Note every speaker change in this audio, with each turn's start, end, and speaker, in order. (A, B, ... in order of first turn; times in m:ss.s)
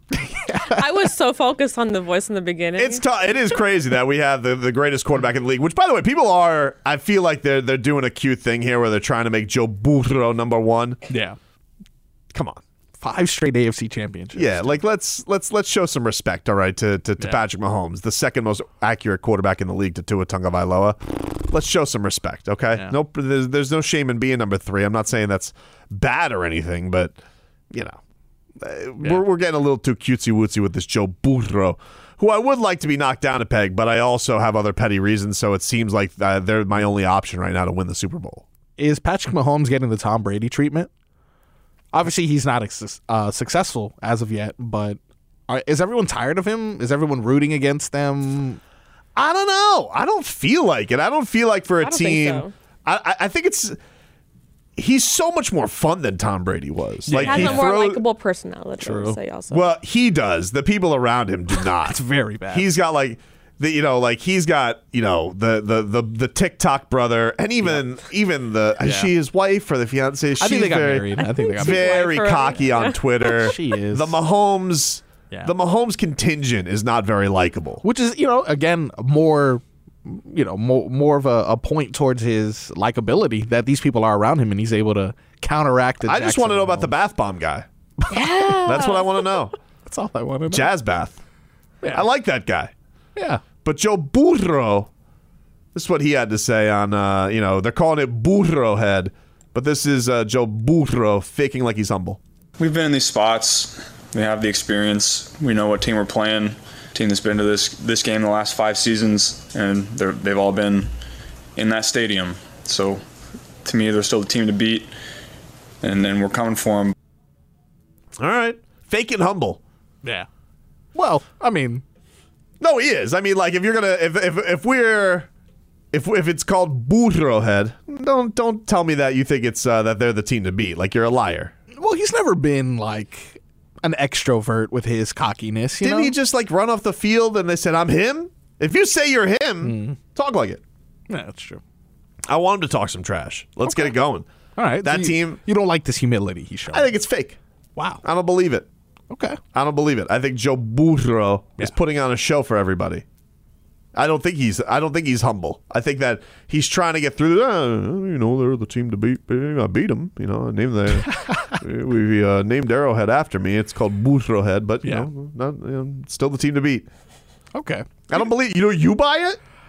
0:00.2-0:00.8 A
0:00.7-0:03.0 B
0:02.8-0:11.0 C
0:11.1-0:11.4 A
0:12.3-0:12.6 C
0:13.0-0:14.8 A
0:14.3-0:27.2 C
0:27.7-0:28.0 C
0:28.6-0:38.4 C
0:38.8-0:40.9 A
0:41.9-0:48.6 A
0:49.2-0:53.8 C
0:51.8-0:52.5 B
0:54.8-0:58.0 C
0:57.1-0:57.7 A
0:57.1-0:59.7 B
0:58.8-0:59.2 A
0:59.5-1:17.8 C
1:01.8-1:02.7 A
1:08.8-1:09.1 A
1:10.4-1:12.4 A
1:11.2-1:13.5 B
1:13.2-1:14.2 A
1:17.8-1:26.9 A
1:26.0-1:27.7 C
1:28.1-1:29.4 B
1:28.6-1:29.5 C
1:29.9-1:30.7 A
1:30.5-1:31.2 C
1:31.9-1:32.7 C
1:33.2-1:33.4 A
1:33.6-1:34.9 C
1:35.7-1:42.2 C
1:42.6-1:50.9 D
1:51.6-1:53.0 D
1:53.6-1:54.9 D
1:55.8-1:56.9 D
1:58.2-1:59.6 C
2:01.0-2:01.8 A
2:02.6-2:05.3 C
2:05.9-2:11.5 C
2:11.7-2:16.2 A
2:15.8-2:20.6 C
2:19.6-2:20.0 A
2:21.1-2:21.6 A
2:22.3-2:24.3 C
2:23.7-2:23.9 A
2:24.6-2:26.9 A
2:24.8-2:25.4 C
2:26.7-2:27.4 C
2:27.8-2:28.0 A
2:28.0-2:28.7 C
2:29.1-2:29.4 A
2:29.5-2:33.0 C
2:34.0-2:46.9 C
2:41.1-2:41.5 A
2:44.8-2:45.1 A
2:47.5-2:48.1 A
2:48.1-2:49.4 C